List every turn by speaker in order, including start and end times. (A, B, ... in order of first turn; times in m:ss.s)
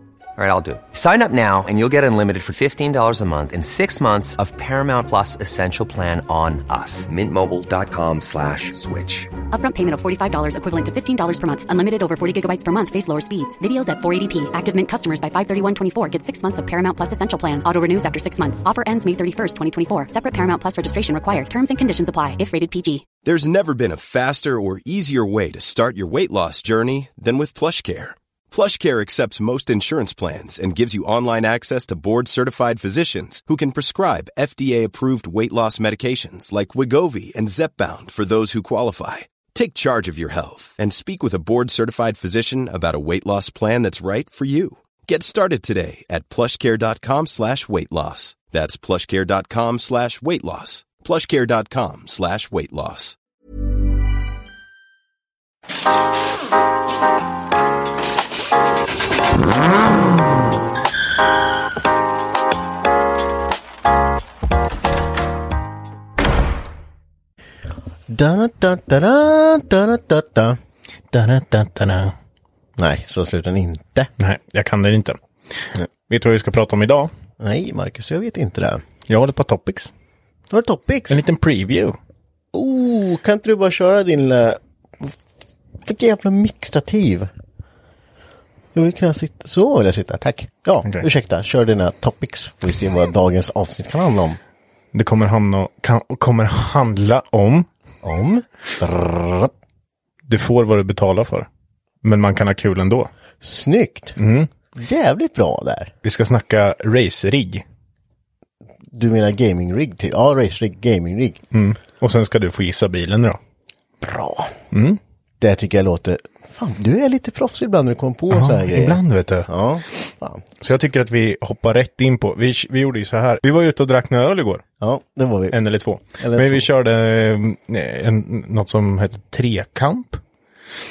0:00.4-0:09.3 A
0:09.5-0:23.1 B
0:23.2-0:53.2 C
1:08.1-1:10.6 D
1:11.1-1:12.2 E
1:12.8-1:14.1 D
1:14.2-1:17.1 E
1:17.4-1:18.8 D
1:19.1-1:19.9 E
1:20.5-1:21.2 D
1:21.1-1:22.0 E
1:22.5-1:25.2 D
1:25.8-1:27.3 D
1:28.7-1:34.4 D
1:34.9-1:37.7 E
1:38.0-1:39.5 D
1:40.3-1:41.5 E
1:42.0-1:43.1 E
1:43.4-1:44.2 D
1:44.2-1:44.5 E
1:44.8-1:45.9 D
1:46.0-1:47.6 E
1:48.9-1:51.4 D
1:51.5-1:53.4 E
1:54.0-1:54.6 D
1:54.7-1:55.0 E
1:55.4-2:00.6 D
1:58.3-1:59.5 E
2:00.6-2:04.6 E
2:04.8-2:05.6 D
2:05.5-2:10.2 E
2:06.2-2:06.7 D